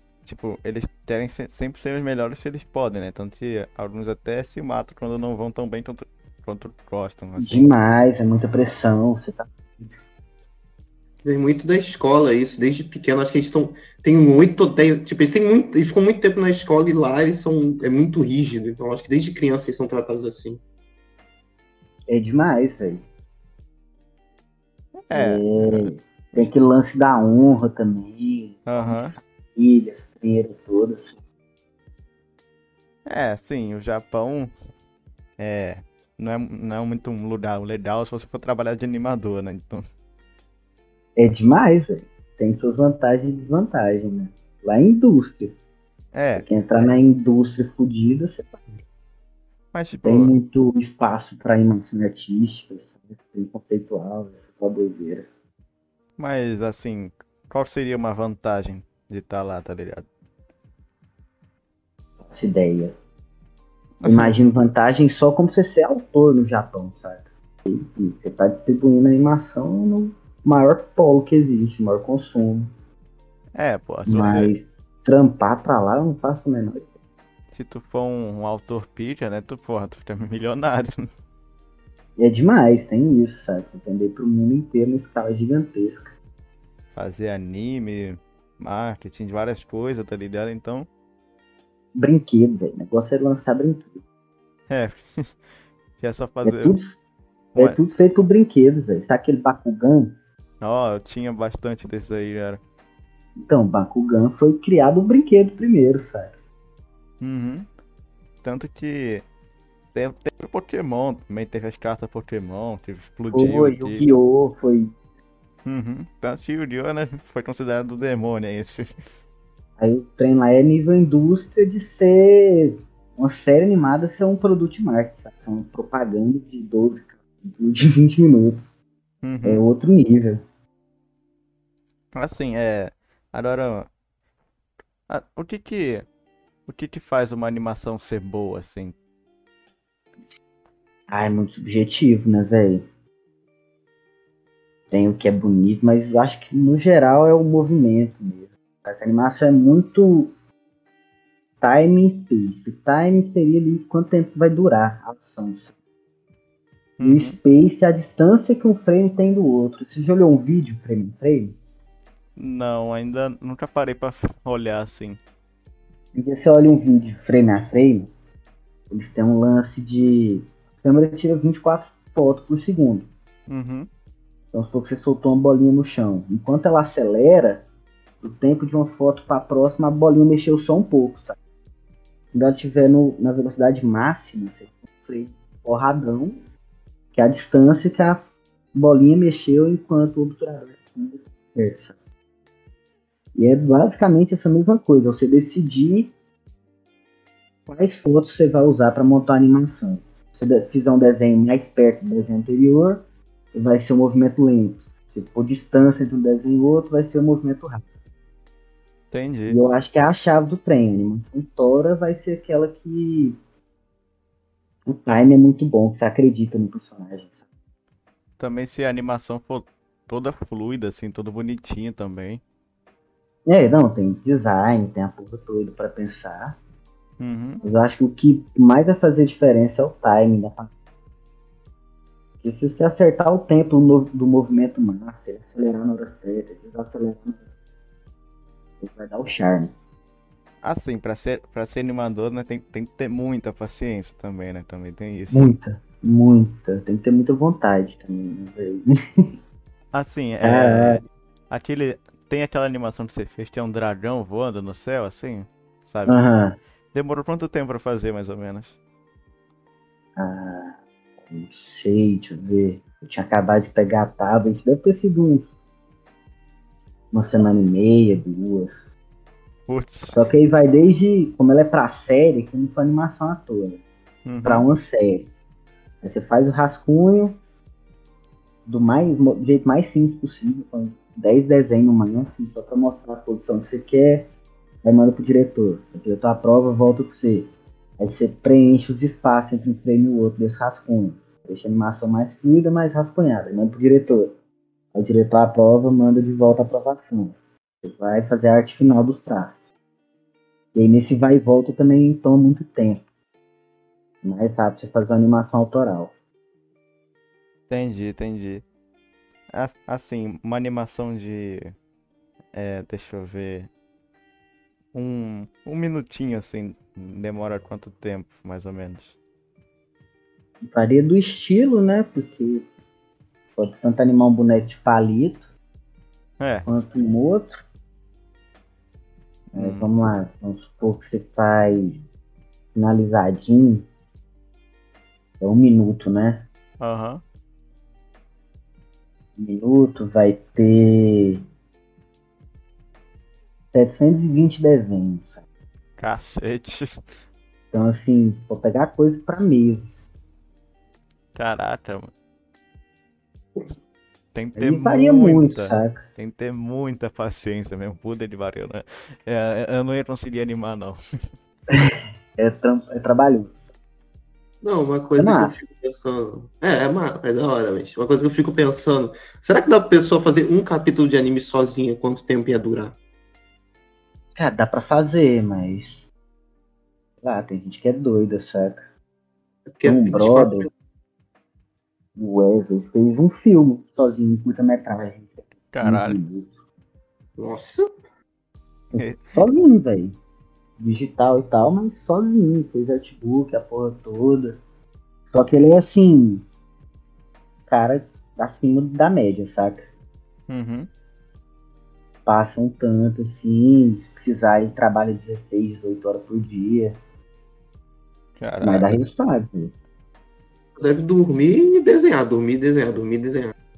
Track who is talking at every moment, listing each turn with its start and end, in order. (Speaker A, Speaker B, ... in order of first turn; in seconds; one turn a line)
Speaker A: 0.2-7.7
Speaker B: 7.4-9.9
Speaker C: 11.2-20.6
Speaker B: 22.1-23.0
Speaker A: 25.1-26.5
Speaker B: 25.1-31.2
Speaker A: 28.6-29.1
Speaker A: 33.0-34.5
Speaker A: 35.4-39.8
Speaker B: 41.2-45.5
Speaker A: 46.1-46.5
Speaker B: 46.4-48.8
Speaker A: 49.7-50.3
Speaker B: 50.0-55.3
Speaker A: 56.2-60.0
Speaker B: 62.2-62.9
Speaker A: 64.0-64.3
Speaker B: 64.0-72.7
Speaker A: 73.5-74.5
Speaker B: 74.0-76.9
Speaker A: 77.5-81.1
Speaker B: 82.2-86.1
Speaker A: 86.9-90.9
Speaker B: 91.9-94.0
Speaker A: 94.7-95.3
Speaker A: 96.0-96.8
Speaker B: 96.4-97.0
Speaker B: 97.5-100.2
Speaker A: 100.6-102.6
Speaker B: 103.4-106.3
Speaker A: 107.2-107.7
Speaker A: 108.4-109.2
Speaker A: 109.9-114.1
Speaker B: 113.3-114.9
Speaker A: 115.6-118.9
Speaker B: 119.8-128.6
Speaker A: 129.2-129.6
Speaker B: 129.4-130.4
Speaker A: 132.1-133.9
Speaker A: 135.1-136.1
Speaker A: 136.7-138.9
Speaker B: 141.1-142.8
Speaker B: 144.9-150.3
Speaker B: 151.6-155.7
Speaker A: 157.0-157.3
Speaker B: 157.0-161.6
Speaker A: 162.3-165.2
Speaker B: 166.1-168.1
Speaker B: 168.9-173.1
Speaker A: 173.5-173.9
Speaker B: 174.5-177.6
Speaker B: 178.2-181.4
Speaker B: 182.3-186.4
Speaker B: 187.1-191.9
Speaker B: 193.3-196.1
Speaker B: 197.7-207.9
Speaker A: 209.1-209.6
Speaker B: 209.5-213.4
Speaker B: 214.9-217.3
Speaker A: 218.4-222.4
Speaker B: 223.5-226.6
Speaker A: 227.2-227.6
Speaker B: 227.6-230.7
Speaker B: 232.4-237.4
Speaker B: 238.8-239.7
Speaker A: 240.6-245.6
Speaker B: 245.3-249.3
Speaker A: 249.9-256.2
Speaker B: 250.4-251.0
Speaker B: 256.1-256.6
Speaker A: 256.9-258.8
Speaker B: 260.2-265.5
Speaker B: 267.1-268.7
Speaker A: 269.7-270.2
Speaker B: 270.1-273.8
Speaker A: 274.2-274.7
Speaker B: 274.4-275.3
Speaker B: 276.0-277.4
Speaker B: 278.6-284.3
Speaker B: 284.8-287.5
Speaker B: 288.0-294.3
Speaker B: 294.9-299.5
Speaker B: 300.7-303.0
Speaker B: 304.2-306.1
Speaker A: 307.7-308.6
Speaker A: 309.5-311.7
Speaker A: 312.5-313.7
Speaker A: 314.9-319.1
Speaker B: 320.6-322.7
Speaker B: 323.6-325.4
Speaker A: 326.4-326.7
Speaker B: 326.6-327.5
Speaker A: 329.5-329.9
Speaker B: 329.5-332.0
Speaker B: 332.7-333.9
Speaker B: 335.4-336.5
Speaker A: 336.8-337.2
Speaker B: 339.4-341.4
Speaker B: 343.7-345.4
Speaker A: 346.0-347.0
Speaker B: 347.7-349.9
Speaker A: 351.3-352.1
Speaker A: 354.3-361.0
Speaker B: 354.6-356.0
Speaker B: 361.7-363.5
Speaker C: 364.6-372.9
Speaker B: 365.2-365.5
Speaker B: 374.4-376.1
Speaker B: 377.2-378.8
Speaker C: 379.7-380.7
Speaker B: 379.8-380.7
Speaker B: 382.2-386.5
Speaker A: 385.7-386.2
Speaker C: 387.4-388.0
Speaker B: 388.9-390.1
Speaker A: 389.0-389.4
Speaker B: 390.8-394.6
Speaker B: 395.3-396.4
Speaker B: 397.7-399.8
Speaker A: 400.5-400.9
Speaker B: 402.2-407.0
Speaker A: 408.4-409.0
Speaker B: 408.6-409.7
Speaker C: 410.8-413.5